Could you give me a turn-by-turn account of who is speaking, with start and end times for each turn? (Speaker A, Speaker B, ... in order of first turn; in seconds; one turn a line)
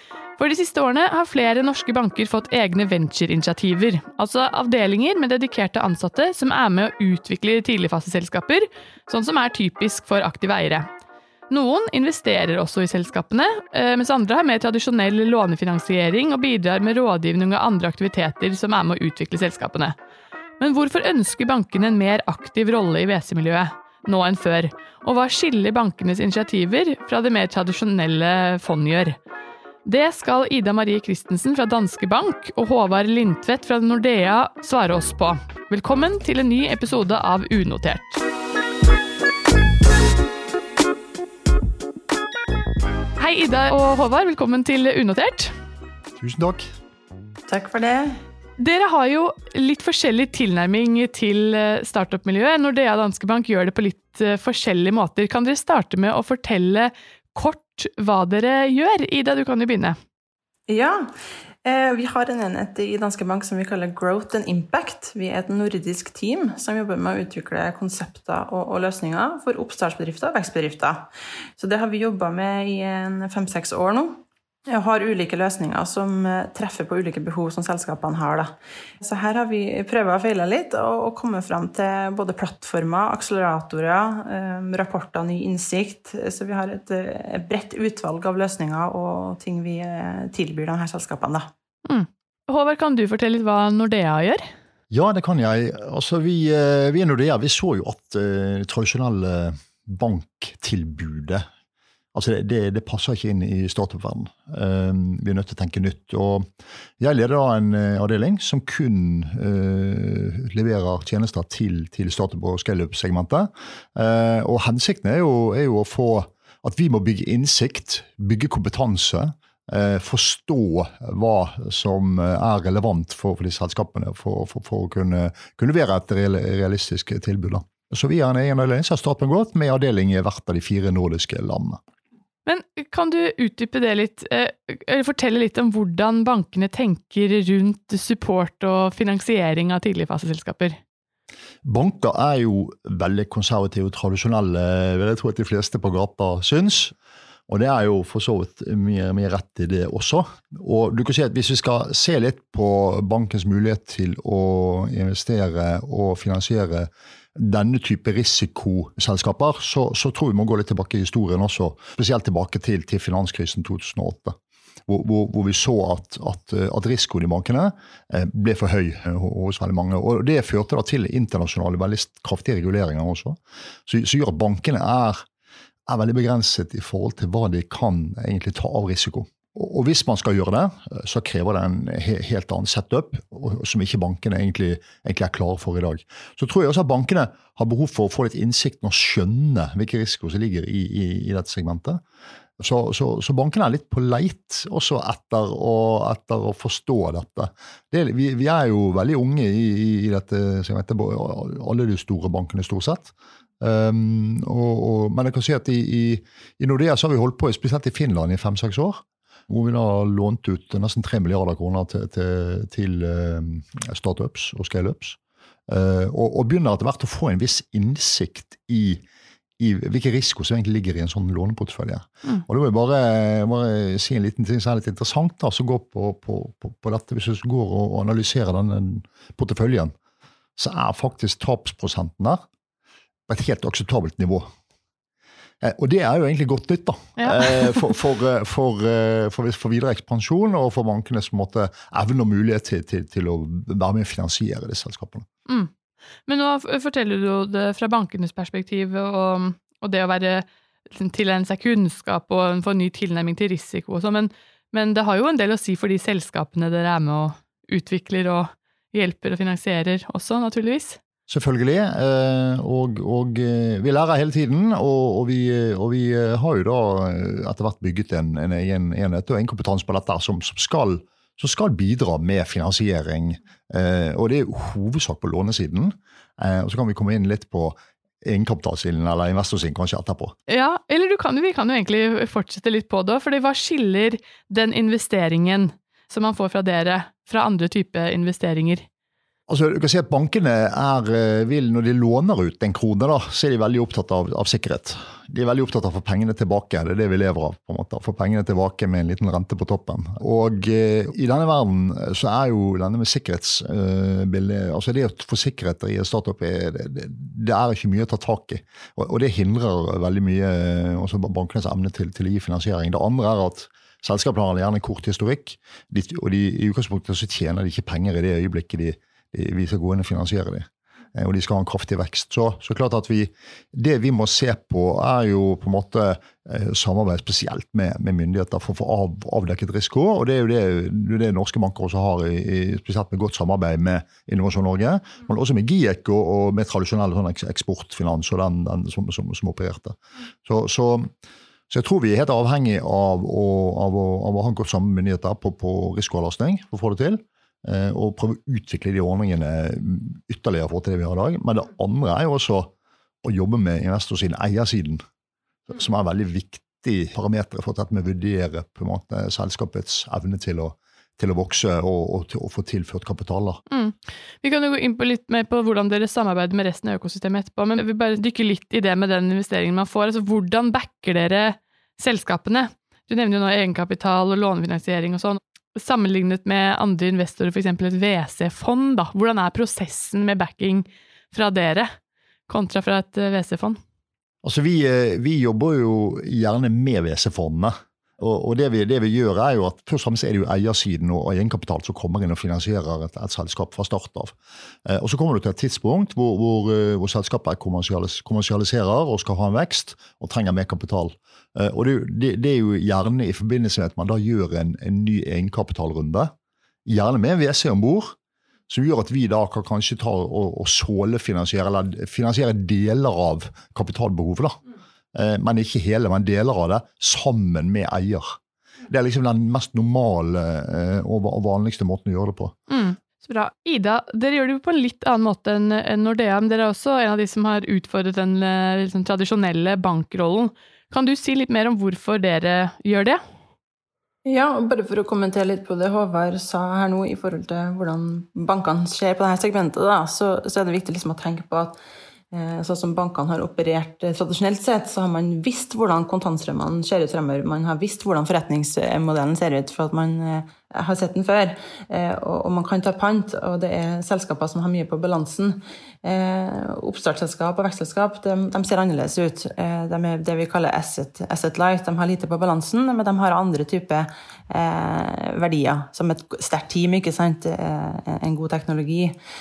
Speaker A: 0.4-10.9
Speaker A: 11.5-20.0
Speaker A: 20.6-29.2
Speaker A: 29.9-38.2
Speaker A: 43.2-45.5
Speaker B: 46.2-46.7
Speaker C: 47.5-48.2
Speaker A: 48.6-60.0
Speaker C: 60.7-61.1
Speaker C: 61.6-91.5
Speaker A: 91.9-94.5
Speaker B: 94.9-101.5
Speaker B: 102.1-106.5
Speaker B: 107.0-131.8
Speaker A: 132.5-140.8
Speaker B: 141.6-146.9
Speaker B: 147.5-164.3
Speaker B: 164.9-175.2
Speaker B: 175.9-192.0
Speaker B: 192.6-219.0
Speaker B: 219.6-229.9
Speaker B: 230.6-232.4
Speaker B: 233.3-234.5
Speaker B: 235.6-245.3
Speaker A: 237.2-237.8
Speaker A: 246.3-261.0
Speaker B: 261.3-280.4
Speaker A: 280.5-288.9
Speaker B: 289.5-341.1
Speaker B: 341.7-355.0
Speaker B: 355.7-363.6
Speaker A: 363.7-381.9
Speaker A: 382.5-383.8
Speaker B: 384.4-406.3
Speaker B: 406.9-408.2
Speaker B: 408.7-414.6
Speaker B: 415.1-418.4
Speaker B: 418.9-422.5
Speaker A: 422.7-433.2
Speaker C: 434.2-441.8
Speaker C: 442.3-469.2